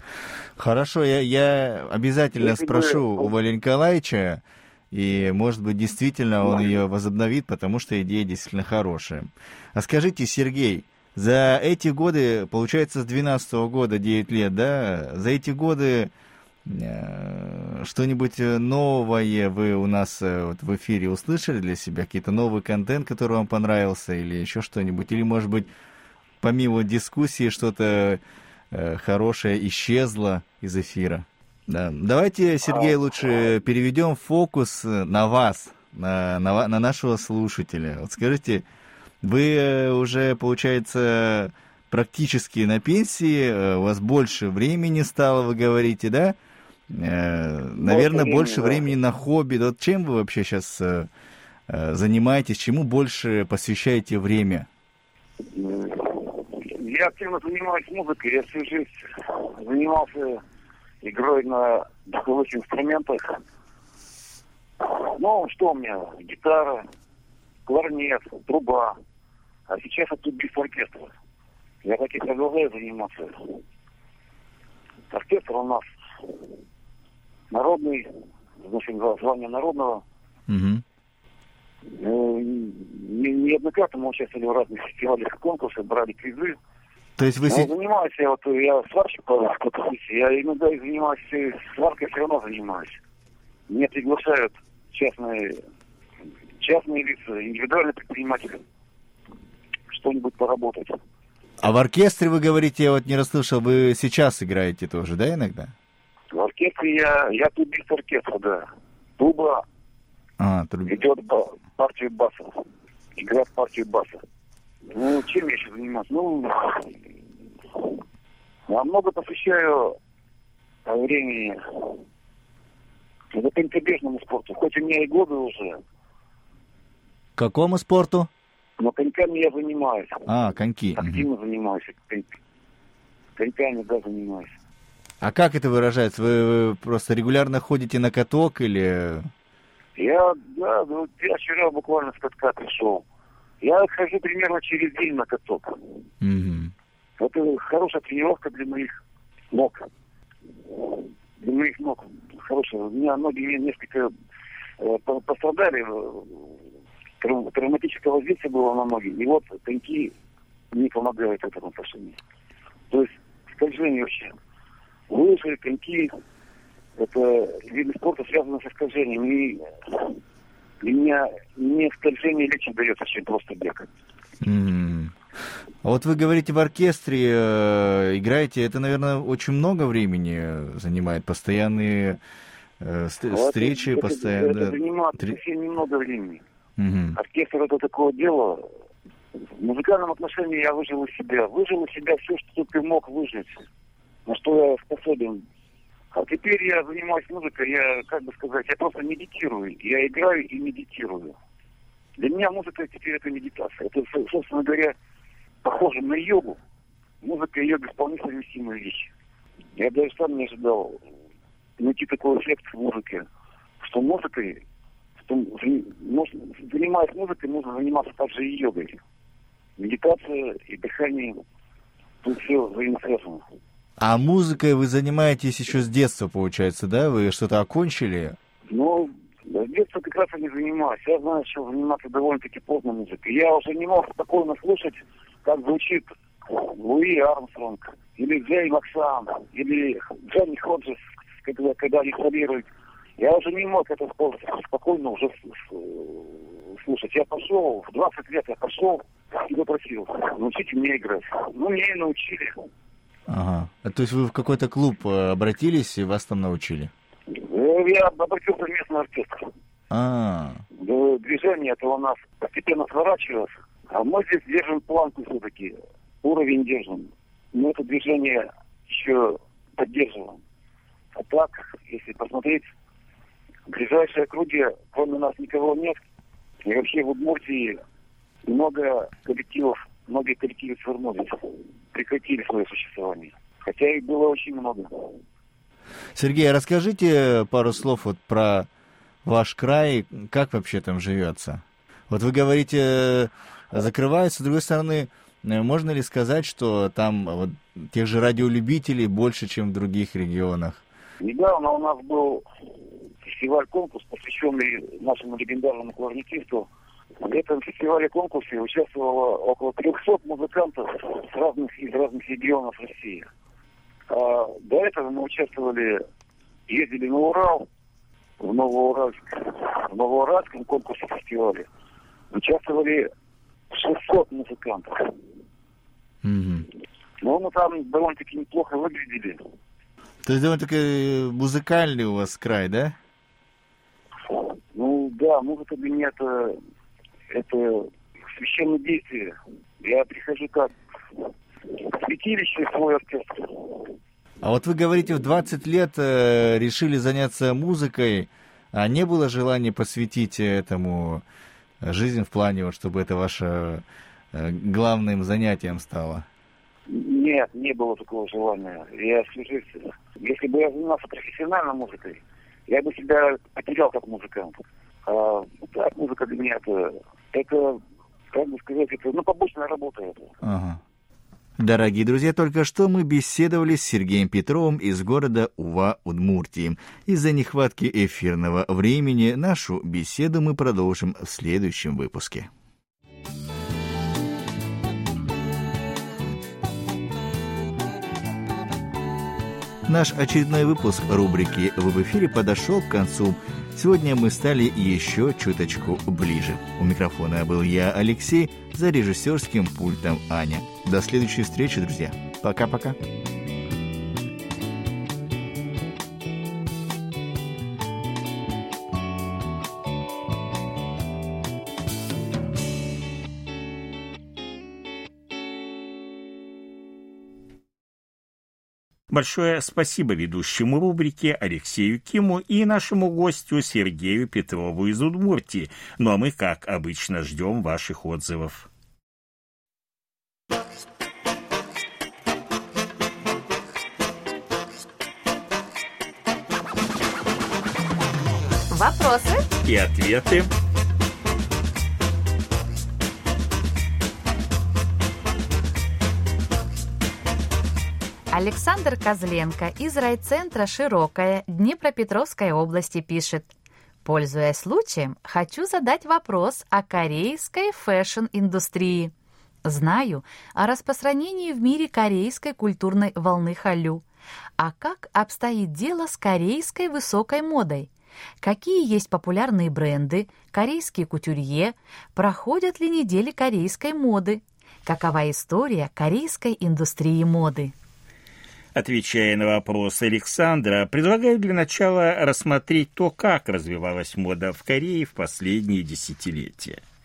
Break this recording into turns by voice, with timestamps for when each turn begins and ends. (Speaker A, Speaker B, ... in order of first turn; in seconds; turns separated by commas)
Speaker A: 0.6-16.1, Speaker B: 2.4-3.3, Speaker B: 6.4-6.7, Speaker A: 16.6-25.7, Speaker A: 26.4-38.6, Speaker A: 39.2-46.4, Speaker A: 46.9-51.1, Speaker B: 47.8-48.8, Speaker A: 51.7-54.7, Speaker B: 55.5-60.4, Speaker B: 61.0-63.4, Speaker B: 64.8-66.8, Speaker B: 67.7-69.0, Speaker B: 69.7-71.1, Speaker B: 71.8-73.5, Speaker B: 75.1-75.8, Speaker B: 77.5-78.1, Speaker B: 78.6-80.0, Speaker A: 80.5-80.8, Speaker B: 81.9-86.6, Speaker A: 87.2-87.7, Speaker B: 87.5-93.0, Speaker B: 93.7-95.6, Speaker B: 96.6-98.6, Speaker B: 99.9-101.0, Speaker A: 101.6-105.7, Speaker B: 106.3-108.7, Speaker B: 109.2-109.6, Speaker A: 110.4-111.0, Speaker B: 110.9-112.6, Speaker B: 113.2-114.2, Speaker B: 114.9-116.9, Speaker B: 118.7-120.0, Speaker B: 120.8-122.0, Speaker B: 123.3-125.8, Speaker A: 127.4-128.3, Speaker B: 128.8-130.2, Speaker A: 130.3-131.3, Speaker B: 131.0-132.3, Speaker B: 133.3-134.5, Speaker A: 135.2-139.3, Speaker B: 139.9-143.0, Speaker B: 143.6-145.9, Speaker A: 146.2-146.7, Speaker B: 147.2-149.0, Speaker B: 149.5-149.9, Speaker B: 150.7-154.1, Speaker B: 154.8-156.5, Speaker B: 157.2-160.1, Speaker B: 160.7-162.2, Speaker B: 162.9-164.3, Speaker B: 165.1-166.1, Speaker B: 167.0-170.2, Speaker B: 170.8-173.9, Speaker A: 174.4-175.1, Speaker A: 175.8-182.2, Speaker A: 182.8-185.4, Speaker B: 183.3-186.4, Speaker A: 186.8-187.2, Speaker B: 187.2-188.7, Speaker B: 189.4-193.6, Speaker B: 194.2-195.4, Speaker B: 196.1-201.3, Speaker B: 202.2-204.9, Speaker B: 205.6-206.6, Speaker B: 207.2-209.1, Speaker B: 209.8-211.0, Speaker B: 211.8-213.2, Speaker B: 213.8-214.6, Speaker B: 215.2-219.0, Speaker B: 219.8-221.4, Speaker B: 222.2-223.4, Speaker A: 224.0-228.4, Speaker B: 228.7-242.7, Speaker B: 243.2-252.6, Speaker A: 253.3-256.9, Speaker B: 257.3-259.5, Speaker A: 259.9-260.6, Speaker B: 260.8-270.4, Speaker B: 271.1-272.6, Speaker B: 273.7-276.0, Speaker B: 276.6-277.8, Speaker B: 278.4-281.4, Speaker B: 281.9-285.1, Speaker A: 286.1-288.7, Speaker A: 289.2-300.8, Speaker B: 301.2-302.4, Speaker B: 303.2-306.7, Speaker B: 307.2-313.3, Speaker B: 314.1-316.0, Speaker B: 316.7-317.7, Speaker B: 318.4-321.7, Speaker B: 322.3-323.1, Speaker B: 323.7-325.1, Speaker A: 326.2-326.7, Speaker B: 327.2-329.4, Speaker A: 330.2-332.9, Speaker B: 334.3-336.6, Speaker B: 337.3-340.7, Speaker B: 341.7-343.9, Speaker A: 344.4-351.2, Speaker A: 351.8-356.2, Speaker B: 356.9-367.8, Speaker B: 368.3-370.3, Speaker A: 370.4-370.8, Speaker A: 371.6-382.5, Speaker A: 389.9-403.0, Speaker C: 419.1-428.7, Speaker D: 438.7-439.5, Speaker C: 439.6-440.5, Speaker D: 448.3-453.5, Speaker D: 454.0-459.1, Speaker D: 459.6-464.0, Speaker D: 464.6-467.9, Speaker D: 468.4-477.7, Speaker C: 478.8-486.8